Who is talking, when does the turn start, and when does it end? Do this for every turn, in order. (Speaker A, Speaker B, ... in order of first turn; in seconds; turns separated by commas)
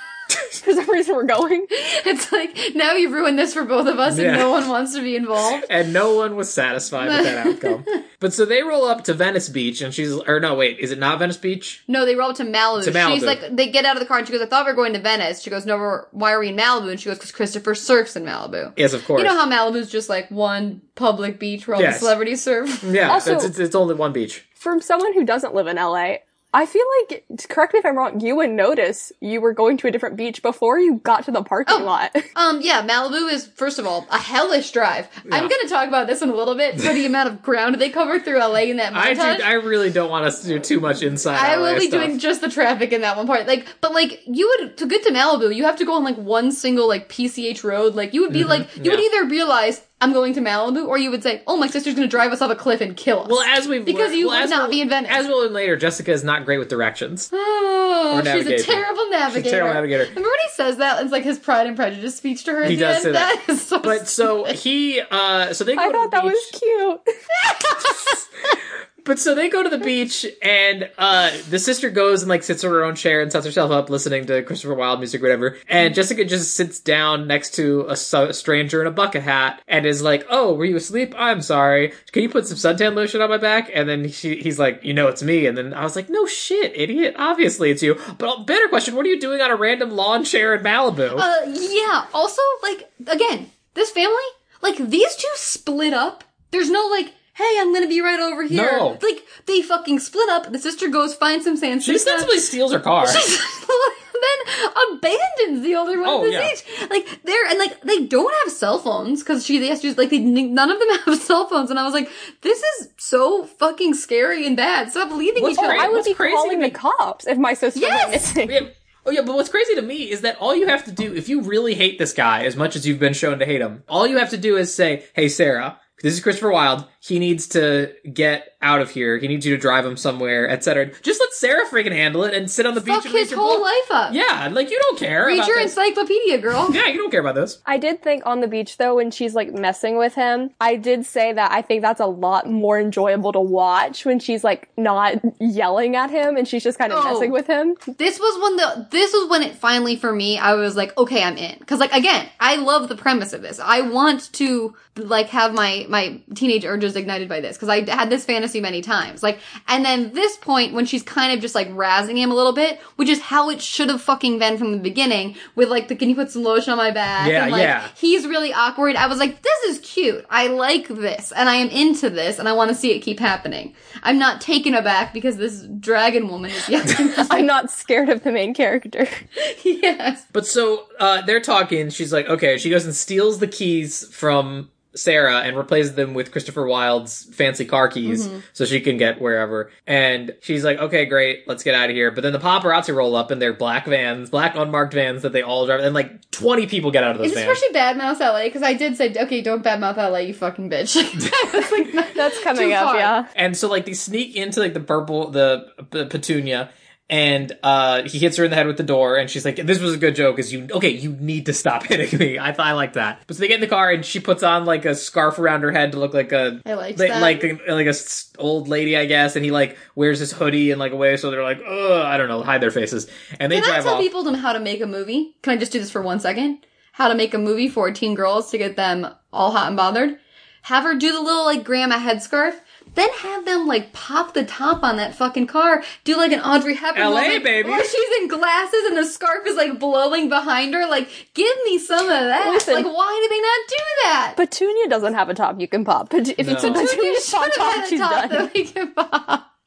Speaker A: 0.5-1.7, Speaker B: 1.8-5.7, Speaker C: 4.1-4.6, Speaker C: 5.6-11.8, Speaker B: 7.0-8.0, Speaker B: 11.9-23.1, Speaker C: 12.8-13.4, Speaker C: 18.8-19.4, Speaker C: 21.8-22.1, Speaker C: 22.8-24.4, Speaker A: 23.1-23.5, Speaker A: 24.6-32.3, Speaker B: 31.7-39.5, Speaker C: 38.9-42.1, Speaker B: 41.3-55.2, Speaker C: 48.3-49.0, Speaker C: 53.2-57.3, Speaker B: 57.3-64.6, Speaker C: 58.1-60.1, Speaker C: 62.6-66.5, Speaker A: 65.8-67.0, Speaker B: 67.4-68.2, Speaker C: 69.0-91.3, Speaker B: 91.1-102.4, Speaker C: 98.5-99.0, Speaker C: 101.8-103.2, Speaker B: 103.0-116.0, Speaker C: 106.0-106.5, Speaker C: 115.3-116.8, Speaker A: 115.6-118.6, Speaker B: 117.7-118.2, Speaker C: 118.5-135.7, Speaker B: 132.8-134.2, Speaker B: 135.2-136.8, Speaker C: 136.7-137.6, Speaker A: 137.7-147.8, Speaker B: 146.9-147.3, Speaker B: 147.9-177.5, Speaker C: 167.2-167.9, Speaker A: 177.2-179.2, Speaker B: 179.4-180.2, Speaker C: 180.3-197.6, Speaker B: 188.0-188.4, Speaker B: 197.2-203.1, Speaker A: 202.1-203.3, Speaker C: 203.3-224.1, Speaker B: 216.6-217.5, Speaker B: 223.5-244.4, Speaker C: 236.9-237.9, Speaker A: 242.4-242.9, Speaker A: 244.4-248.5, Speaker C: 246.4-246.9, Speaker B: 246.6-249.4